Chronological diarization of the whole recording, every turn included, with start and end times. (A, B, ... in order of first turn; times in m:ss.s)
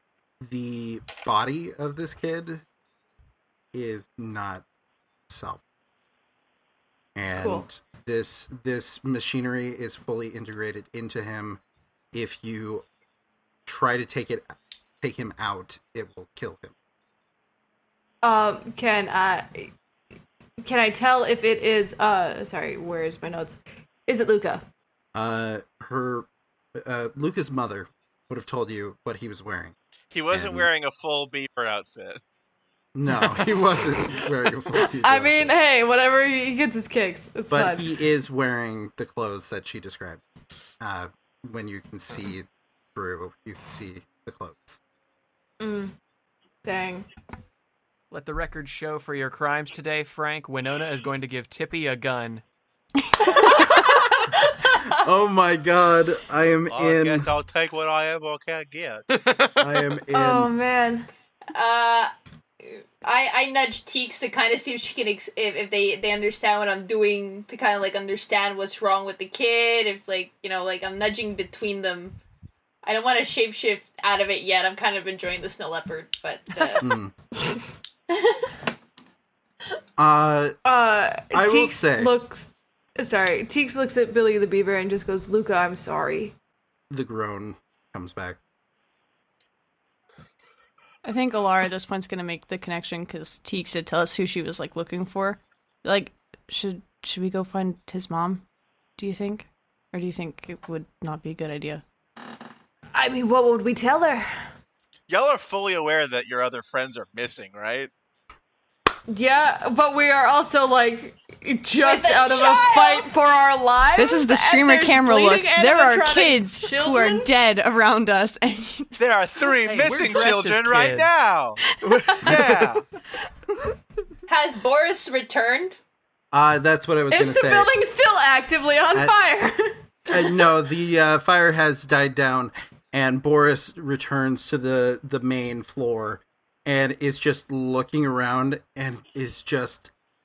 0:00.4-0:02.6 A
0:03.7-0:04.6 A
0:05.3-0:05.6 A
0:07.1-0:11.6 A
0:07.4-0:07.6 B
0:12.1-0:12.8 A
0:13.6-0:16.7 A
0:18.2-0:19.7 B
0:20.6-0:24.6 B
0:25.1-0:29.7 A
0:30.1-0:32.2 C
0:30.3-0:30.7 A
0:32.9-0:35.5 A
0:34.8-0:37.9 B
0:37.5-0:40.2 A
0:40.8-0:44.8 A
0:45.6-0:45.9 B
0:46.6-0:47.0 B
0:48.1-0:52.4 D
0:53.4-0:55.0 B
0:54.9-0:57.3 A
0:56.7-0:59.0 C
0:59.1-0:59.7 D
0:59.6-1:00.5 A
1:00.1-1:01.1 B
1:01.5-1:02.1 E
1:02.6-1:12.2 E
1:12.8-1:16.9 E
1:16.8-1:17.1 A
1:18.1-1:18.5 E
1:20.0-1:20.6 A
1:20.6-1:26.3 B
1:21.3-1:22.1 A
1:26.9-1:28.4 A
1:31.0-1:38.4 F
1:39.0-1:41.8 F
1:42.9-1:44.2 B
1:45.1-1:47.9 C
1:49.1-1:57.3 B
1:51.8-1:53.1 E
1:54.0-1:58.9 F
1:59.0-2:01.6 C
1:59.6-2:01.2 D
2:01.8-2:02.4 D
2:01.9-2:02.3 F
2:02.2-2:02.8 C
2:04.3-2:05.8 E
2:06.3-2:07.7 A
2:07.1-2:10.5 B
2:08.9-2:09.2 A
2:10.1-2:19.9 A